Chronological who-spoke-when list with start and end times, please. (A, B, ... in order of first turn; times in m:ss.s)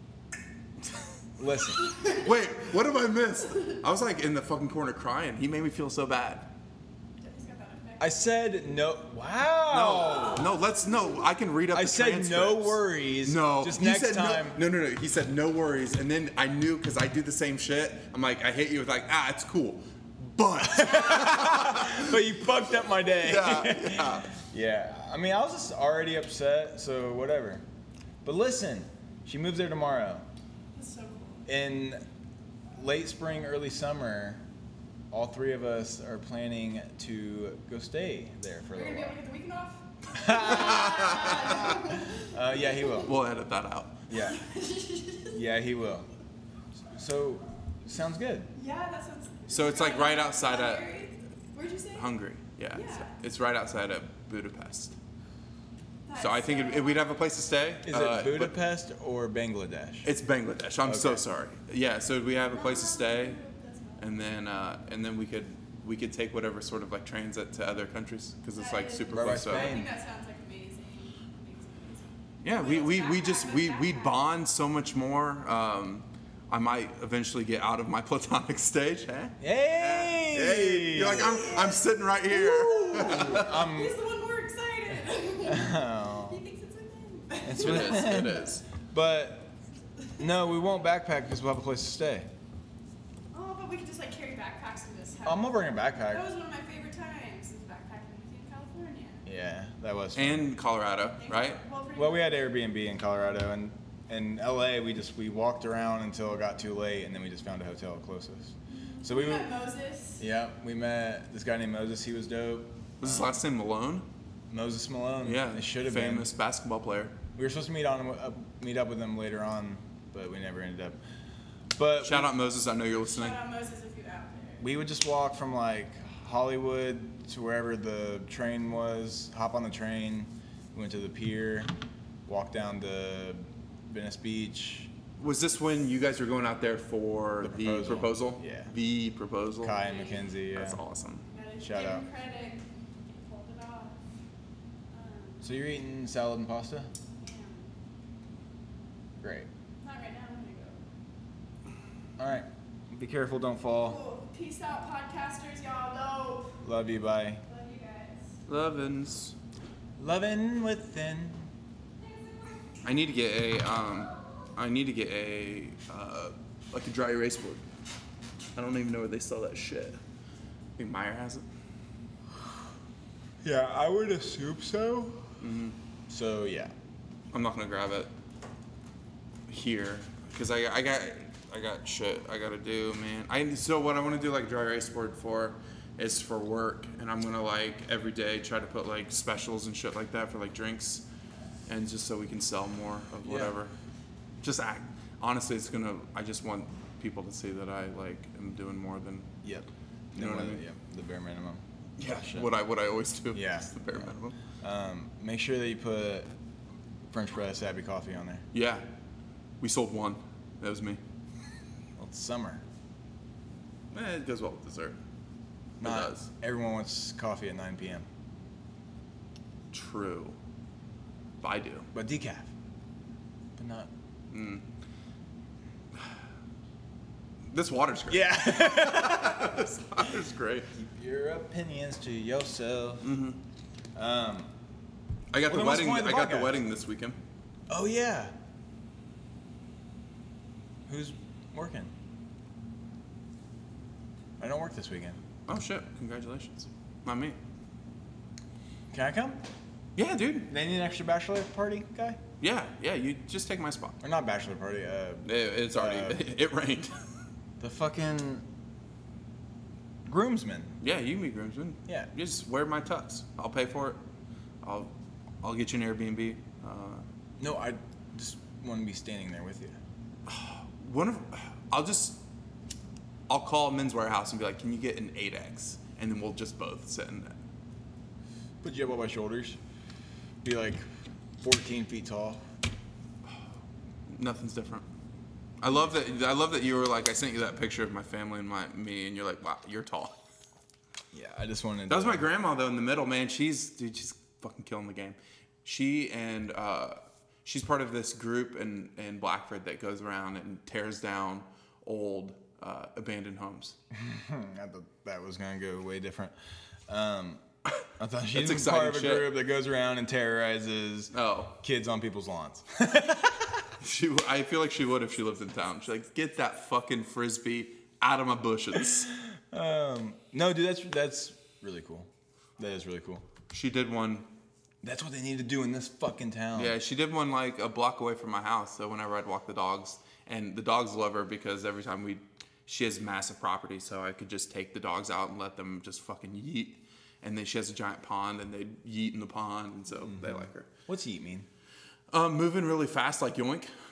0:01.4-0:02.0 A
0:02.0-0:06.5 B
0:07.2-0:08.2 C
0:08.0-0:10.5 A
0:09.7-0:22.2 B
0:11.7-0:14.6 A
0:20.6-0:27.6 A
0:23.2-0:24.3 B
0:28.2-0:30.3 A
0:30.8-0:31.5 C
0:31.5-0:32.0 A
0:32.8-0:34.4 A
0:35.1-0:39.2 A
0:38.7-0:42.8 C
0:40.1-0:43.1 A
0:40.4-0:41.8 B
0:43.0-0:44.1 B
0:44.1-0:44.4 A
0:44.2-0:45.4 C
0:45.3-0:46.1 A
0:46.9-0:48.5 A
0:48.5-0:52.1 C
0:49.5-0:51.0 B
0:51.9-0:55.0 B
0:52.7-0:53.2 C
0:56.1-0:57.1 C
0:56.2-0:58.6 B
0:57.8-1:00.1 A
1:00.0-1:03.4 B
1:00.8-1:01.2 A
1:02.5-1:04.1 C
1:04.0-1:09.8 B
1:08.6-1:14.2 C
1:09.1-1:09.9 A
1:12.4-1:23.6 B
1:19.4-1:21.5 A
1:21.1-1:28.5 C
1:22.9-1:24.0 A
1:25.4-1:26.4 A
1:27.4-1:29.6 A
1:27.6-1:28.6 B
1:30.2-1:32.3 A
1:33.3-1:39.2 C
1:35.2-1:36.3 A
1:39.2-1:40.5 A
1:40.2-1:41.6 B
1:41.2-1:42.5 C
1:41.9-1:49.6 A
1:48.7-1:50.2 C
1:50.2-1:53.4 A
1:53.0-1:54.1 B
1:54.5-1:56.3 A
1:55.2-1:57.2 B
1:57.4-2:01.0 A
2:01.8-2:02.3 A
2:02.0-2:03.4 B
2:03.0-2:04.7 C
2:04.6-2:11.7 A
2:12.3-2:14.9 A
2:15.2-2:19.9 B
2:17.4-2:18.7 A
2:19.6-2:20.8 A
2:19.7-2:20.3 C
2:20.5-2:21.2 B
2:21.3-2:24.0 C
2:21.6-2:22.0 A
2:24.9-2:25.5 C
2:25.4-2:26.9 A
2:27.2-2:27.7 C
2:29.2-2:29.5 A
2:29.8-2:30.8 C
2:32.2-2:34.0 A
2:33.8-2:36.6 C
2:36.6-2:37.4 A
2:37.4-2:38.4 C
2:38.5-2:39.4 B
2:40.0-2:41.5 A
2:42.8-2:47.6 B
2:48.6-2:50.0 B
2:50.8-2:51.5 B
2:53.4-2:55.3 A
2:55.4-2:55.8 B
2:56.1-2:56.7 A
2:57.3-2:58.1 B
2:59.5-3:11.1 B
3:11.7-3:13.7 B
3:13.2-3:13.6 A
3:14.4-3:19.3 B
3:19.4-3:22.6 A
3:20.2-3:20.6 B
3:22.0-3:24.4 B
3:23.3-3:26.3 A
3:27.1-3:28.4 A
3:28.5-3:28.9 B
3:29.6-3:31.0 B
3:32.0-3:32.6 A
3:33.9-3:35.0 B
3:35.8-3:36.3 B
3:35.8-3:38.1 A
3:39.7-3:40.4 B
3:41.4-3:41.9 B
3:41.9-3:42.5 A
3:43.6-3:43.9 A
3:44.3-3:44.6 B
3:47.5-3:50.7 B
3:48.1-3:49.6 A
3:50.7-3:53.1 A
3:53.0-3:53.4 B
3:54.0-3:54.5 A
3:55.3-3:57.2 B
3:55.4-3:56.6 A
3:57.7-3:58.3 A
4:00.9-4:01.9 A
4:04.4-4:05.2 A
4:05.5-4:07.4 B
4:08.9-4:09.4 A
4:10.0-4:10.5 B
4:10.5-4:12.2 A
4:12.4-4:14.0 B
4:14.0-4:16.2 A
4:15.2-4:17.1 B
4:17.6-4:18.5 A
4:20.1-4:20.8 A
4:20.8-4:24.0 B
4:24.6-4:27.0 B
4:27.4-4:29.8 A
4:30.3-4:32.2 B
4:33.3-4:37.4 B
4:38.6-4:39.6 A
4:40.4-4:40.8 A
4:41.4-4:42.4 A
4:44.1-4:44.9 B
4:45.6-4:50.2 B
4:51.1-4:52.3 A
4:51.9-5:03.8 B
5:03.9-5:06.3 A
5:06.9-5:07.4 A
5:08.0-5:13.7 A
5:08.3-5:09.4 B
5:11.1-5:11.5 B
5:13.8-5:19.1 B
5:19.5-5:23.2 A
5:23.5-5:24.3 B
5:24.8-5:26.8 A
5:26.6-5:40.7 B
5:40.1-5:41.5 A
5:42.1-5:43.7 B